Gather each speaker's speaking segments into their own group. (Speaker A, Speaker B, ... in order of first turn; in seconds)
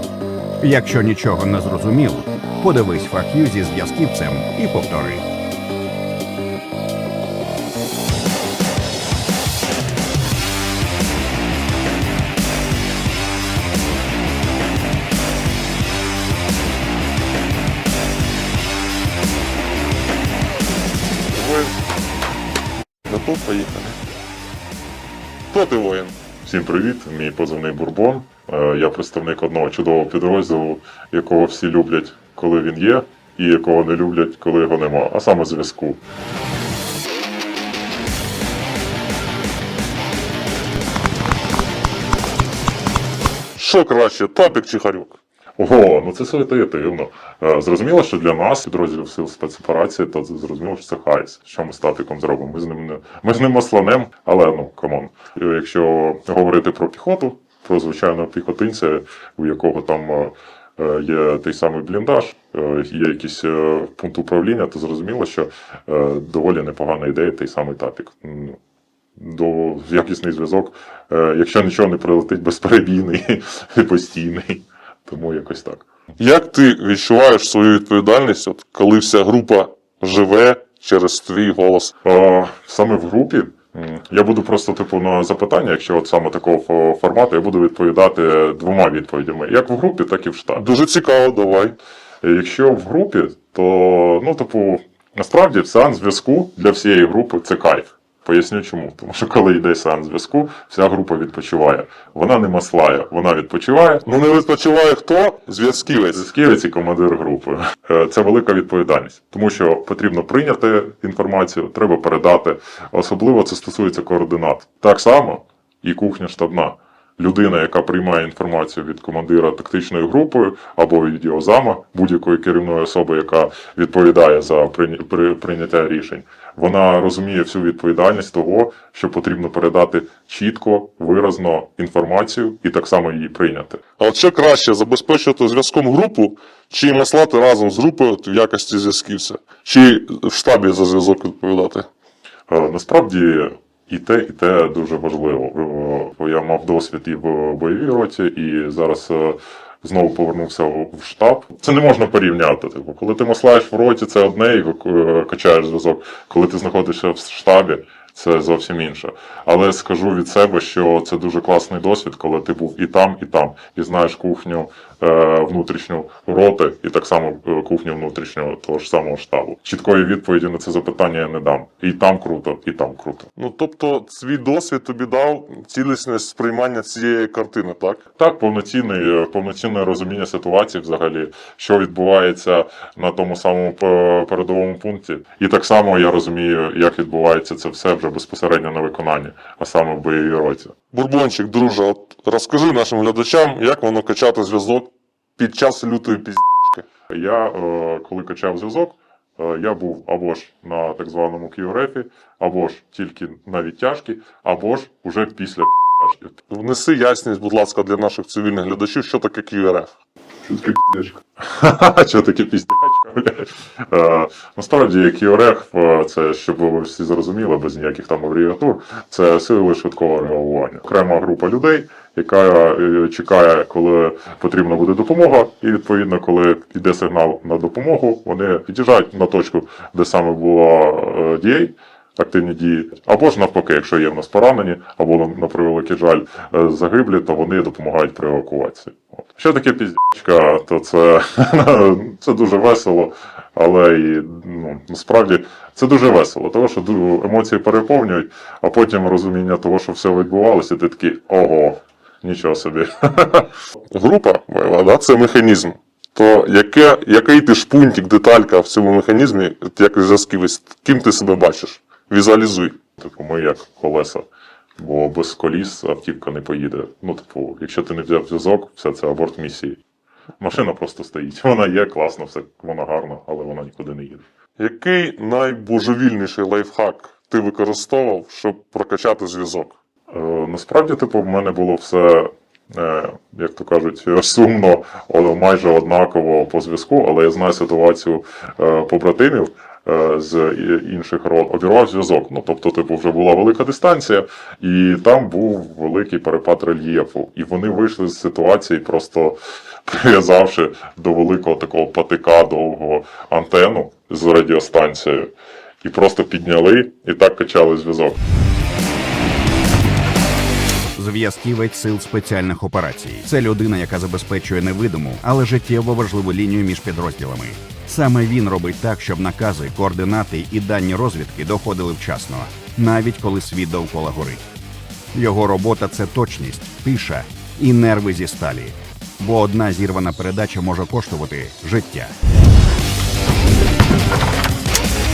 Speaker A: 0.6-5.2, 310.9-324.4, 325.1-332.1
Speaker B: 21.3-21.7, 23.1-24.0, 25.5-26.1, 43.5-45.2, 76.2-81.9, 90.6-91.7, 104.0-106.3, 134.0-141.9, 173.3-178.0, 190.9-196.8, 206.5-209.9, 210.5-211.1, 253.9-262.8, 274.6-279.8
Speaker C: 26.4-36.0, 45.6-68.6, 69.2-75.8, 82.0-90.6, 92.2-104.0, 106.1-133.8, 142.5-173.3, 178.2-190.7, 197.1-206.4, 211.4-253.6, 263.0-264.2, 264.8-269.8, 270.4-274.2, 280.1-308.2